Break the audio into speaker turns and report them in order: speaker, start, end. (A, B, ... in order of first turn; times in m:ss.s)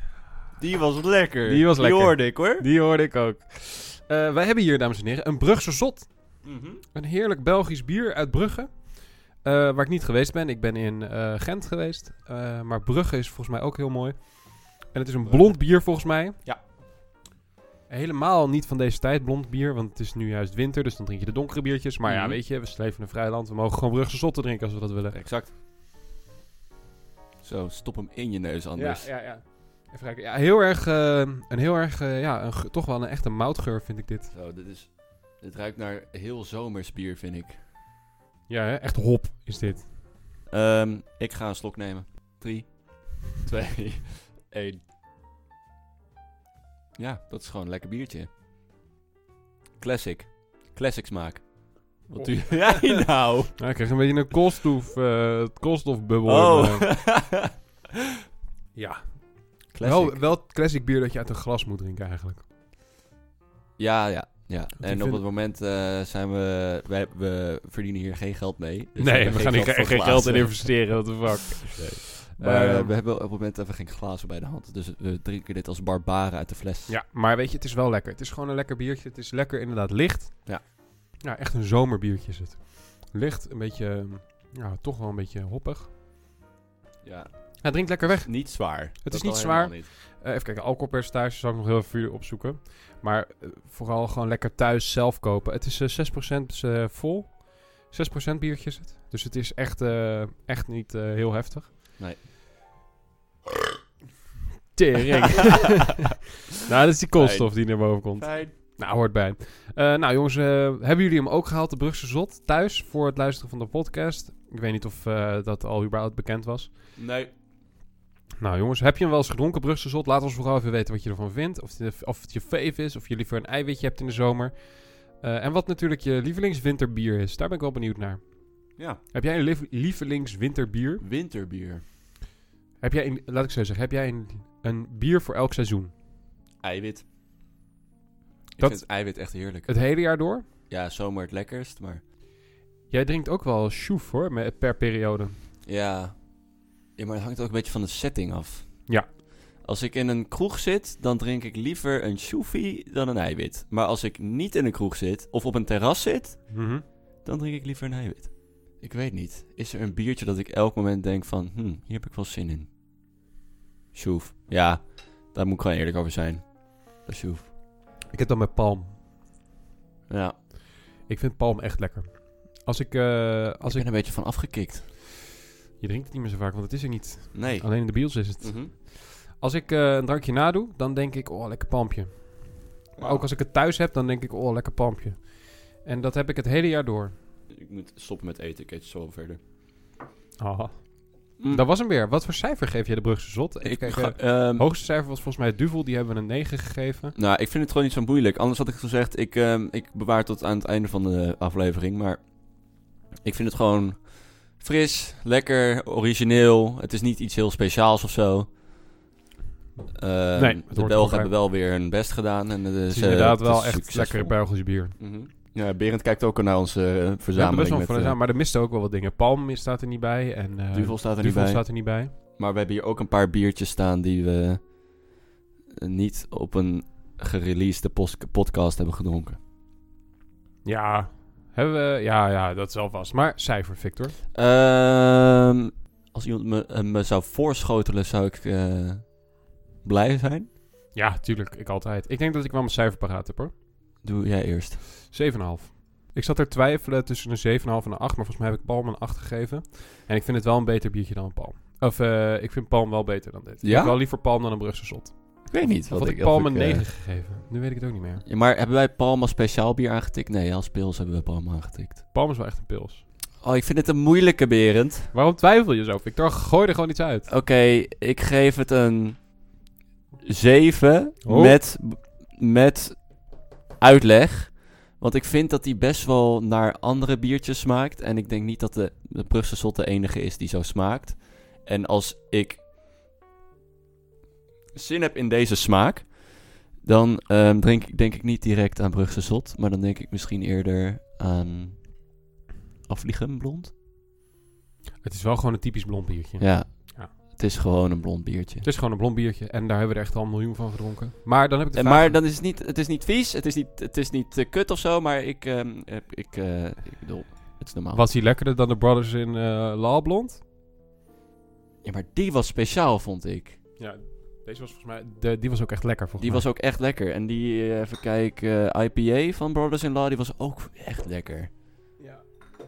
0:00.6-0:02.6 A
0:01.4-0:16.4 B
0:06.4-0:06.8 A
0:15.2-0:16.6 A
0:17.9-0:25.2 B
0:22.0-0:22.4 A
0:25.1-0:25.5 A
0:27.4-0:29.1 A
0:28.7-0:34.3 B
0:34.3-0:37.6 A
0:38.5-0:39.9 B
0:40.5-0:44.8 A
0:47.0-0:48.3 A
0:49.8-0:53.7 A
0:52.1-0:57.0 B
0:56.2-0:57.5 A
0:58.7-1:02.4 B
0:59.7-1:00.2 A
1:03.8-1:16.9 A
1:04.8-1:05.2 B
1:09.0-1:12.9 B
1:16.9-1:25.9 B
1:27.0-1:29.9 A
1:27.6-1:41.7 B
1:44.7-1:46.1 B
1:46.6-1:56.7 B
1:47.1-1:48.5 A
1:57.0-1:57.3 A
1:58.4-2:11.0 B
2:11.0-2:11.8 A
2:12.8-2:15.9 B
2:16.6-2:17.0 A
2:18.6-2:19.9 A
2:18.6-2:20.4 B
2:20.7-2:22.0 A
2:22.9-2:25.3 B
2:25.6-2:42.7 A
2:36.5-2:36.8 B
2:43.9-2:47.5 A
2:48.1-2:49.0 B
2:50.1-2:50.4 A
2:51.0-2:53.9 B
2:53.6-2:54.9 A
2:55.8-3:07.1 B
2:57.3-2:58.7 A
3:02.9-3:03.3 A
3:07.5-3:09.4 A
3:10.4-3:17.1 B
3:11.4-3:11.6 A
3:13.6-3:14.6 A
3:17.1-3:28.6 A
3:29.9-3:38.2 A
3:30.3-3:31.3 B
3:32.9-3:35.0 B
3:37.3-3:42.1 B
3:40.7-3:44.8 A
3:45.8-3:49.4 A
3:50.6-3:54.2 B
3:54.3-4:00.5 A
4:00.9-4:03.5 B
4:04.0-4:04.8 A
4:05.1-4:18.2 B
4:13.6-4:14.0 A
4:15.5-4:16.9 A
4:18.2-4:22.0 A
4:22.1-4:23.0 B
4:23.4-4:25.1 A
4:25.1-4:27.3 B
4:27.3-4:29.5 A
4:30.2-4:42.6 A
4:31.2-4:31.6 B
4:44.7-4:52.1 A
4:52.9-4:53.7 A
4:55.0-4:57.1 B
4:56.4-4:58.6 A
4:58.6-5:02.2 B
5:01.7-5:08.0 A
5:07.9-5:10.4 B
5:11.8-5:13.6 A
5:13.8-5:16.4 B
5:16.2-5:21.5 A
5:22.0-5:22.5 B